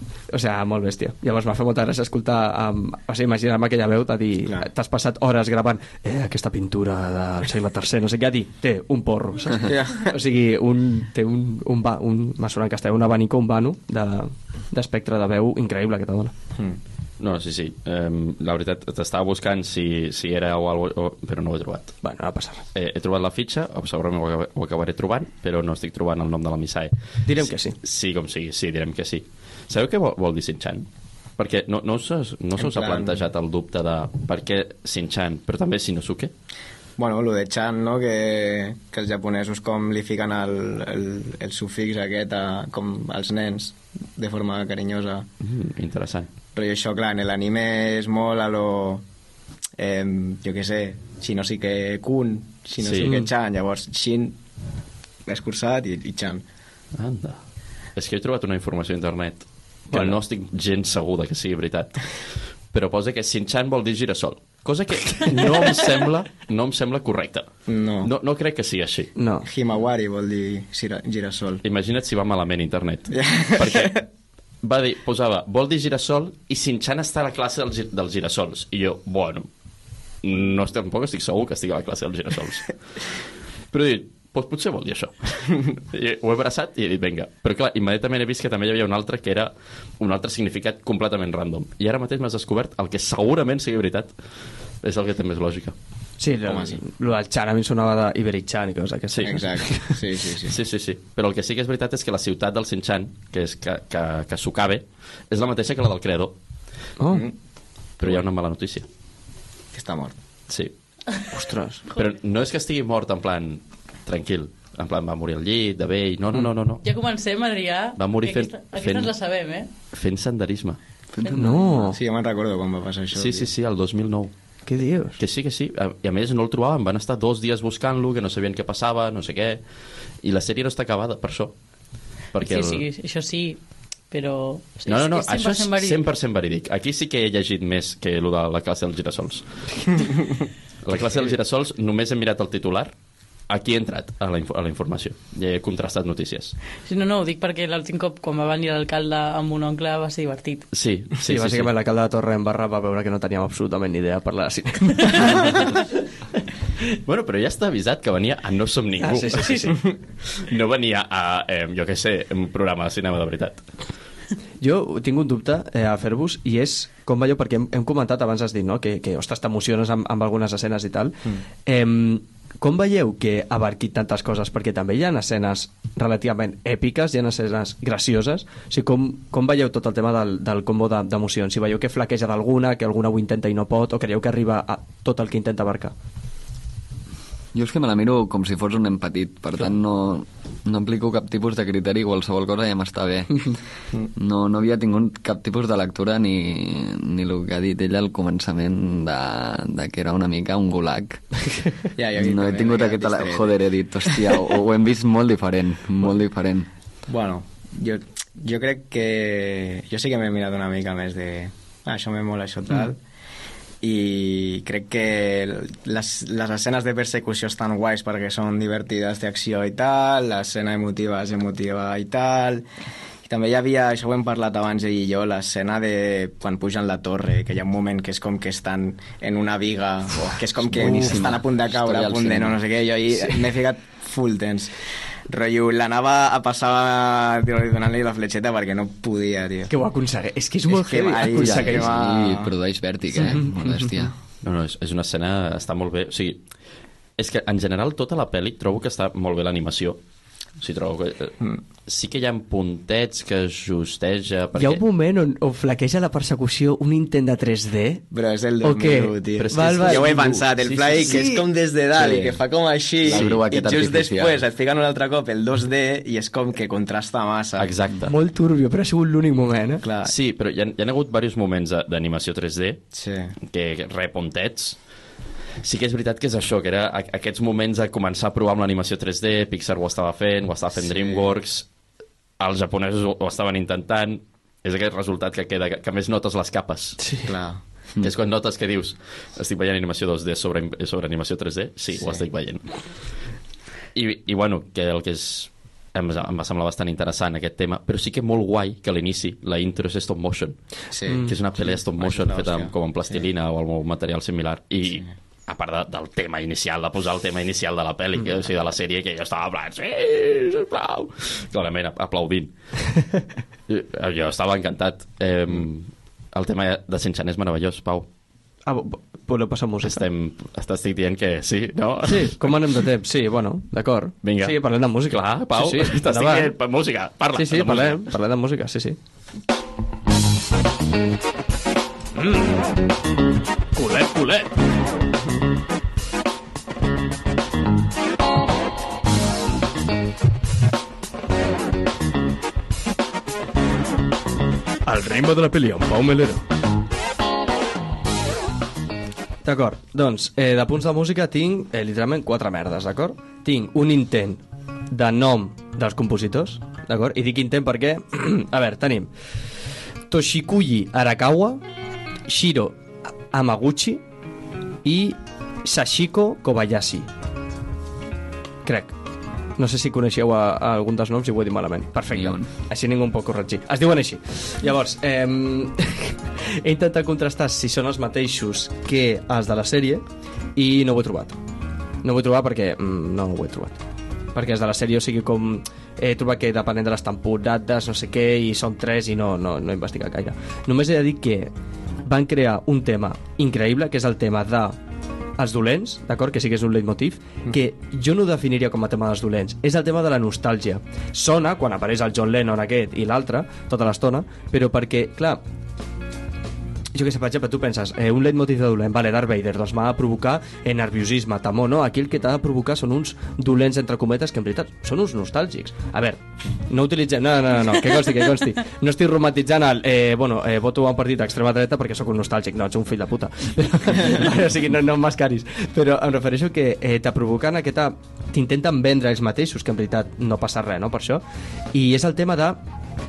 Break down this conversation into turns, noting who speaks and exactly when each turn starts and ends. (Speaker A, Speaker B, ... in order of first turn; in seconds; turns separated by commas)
Speaker A: 0.3-16.3, Speaker B: 9.6-10.1, Speaker C: 17.2-22.0, Speaker A: 22.0-22.6, Speaker C: 22.7-30.9, Speaker A: 27.3-27.8, Speaker C: 31.4-36.3, Speaker B: 32.6-33.2, Speaker B: 37.0-45.3, Speaker C: 45.4-46.3, Speaker B: 46.5-49.0, Speaker B: 49.8-54.4, Speaker C: 52.8-53.1, Speaker A: 53.0-53.3, Speaker B: 55.3-56.4, Speaker C: 57.0-57.4, Speaker C: 58.0-62.1, Speaker A: 59.9-60.2, Speaker C: 62.7-67.5, Speaker B: 67.7-68.1, Speaker C: 68.0-69.1, Speaker A: 69.2-69.5, Speaker B: 69.4-71.6, Speaker C: 71.6-74.0, Speaker B: 73.1-74.0, Speaker C: 74.6-79.5, Speaker C: 80.2-82.7, Speaker C: 83.7-94.1, Speaker C: 94.8-95.8, Speaker A: 96.2-100.0, Speaker B: 96.5-96.8, Speaker C: 99.1-99.4, Speaker B: 99.2-100.6, Speaker C: 100.5-106.3, Speaker A: 107.0-107.3, Speaker C: 108.0-108.9, Speaker B: 109.7-110.2, Speaker C: 110.5-110.7, Speaker A: 111.3-111.9, Speaker C: 111.9-116.8, Speaker D: 116.8-119.7, Speaker C: 118.0-119.1, Speaker C: 119.9-120.8, Speaker E: 121.1-121.9, Speaker A: 121.3-122.0, Speaker B: 121.9-123.5, Speaker C: 123.1-124.3, Speaker A: 124.7-125.2, Speaker C: 125.2-129.6, Speaker C: 130.2-131.5, Speaker C: 132.3-132.8, Speaker D: 132.4-133.6, Speaker D: 134.1-136.0, Speaker C: 134.9-140.1, Speaker C: 140.8-142.9, Speaker C: 143.5-146.6, Speaker D: 146.9-150.7, Speaker C: 150.7-151.7, Speaker A: 151.2-155.9, Speaker C: 157.1-163.6, Speaker A: 159.0-159.8, Speaker A: 164.6-185.9, Speaker E: 187.5-193.6, Speaker E: 194.2-201.4, Speaker B: 202.0-203.6, Speaker E: 202.2-206.7, Speaker B: 207.1-213.0, Speaker B: 213.8-222.7, Speaker B: 223.2-234.7, Speaker E: 230.7-232.6, Speaker B: 235.3-239.7, Speaker A: 239.7-241.9, Speaker B: 240.7-242.5, Speaker E: 241.3-244.1, Speaker A: 243.2-243.9, Speaker C: 244.4-246.4, Speaker C: 247.2-250.0, Speaker C: 250.6-254.8, Speaker A: 254.6-258.0, Speaker B: 258.1-267.8, Speaker A: 258.6-261.4, Speaker C: 259.4-260.5, Speaker E: 262.0-262.4, Speaker E: 263.0-264.4, Speaker C: 263.1-263.4, Speaker C: 267.6-268.2, Speaker A: 268.1-269.9, Speaker B: 269.8-270.1, Speaker C: 270.0-272.8, Speaker B: 272.9-273.4, Speaker C: 273.4-274.8, Speaker C: 275.6-281.7, Speaker B: 280.8-281.3, Speaker C: 282.4-287.0, Speaker A: 287.0-287.3, Speaker B: 287.3-287.6, Speaker C: 288.0-292.7, Speaker B: 291.9-292.3, Speaker C: 293.9-300.6, Speaker B: 300.9-302.8, Speaker A: 301.1-301.4, Speaker C: 301.1-312.5, Speaker C: 313.7-318.1, Speaker A: 318.7-320.1, Speaker C: 319.8-322.6, Speaker A: 322.1-326.6, Speaker C: 324.2-328.1, Speaker A: 327.3-329.0, Speaker A: 332.1-332.7, Speaker A: 333.8-334.5, Speaker A: 344.9-346.4, Speaker A: 349.4-359.1, Speaker A: 360.1-361.6, Speaker A: 362.3-364.0, Speaker A: 364.8-367.1, Speaker A: 368.6-369.0, Speaker A: 369.6-380.0, Speaker E: 372.1-372.5, Speaker A: 380.6-381.4, Speaker A: 382.0-383.8, Speaker A: 384.3-391.5, Speaker A: 392.0-394.8, Speaker A: 395.4-405.4, Speaker A: 406.9-432.6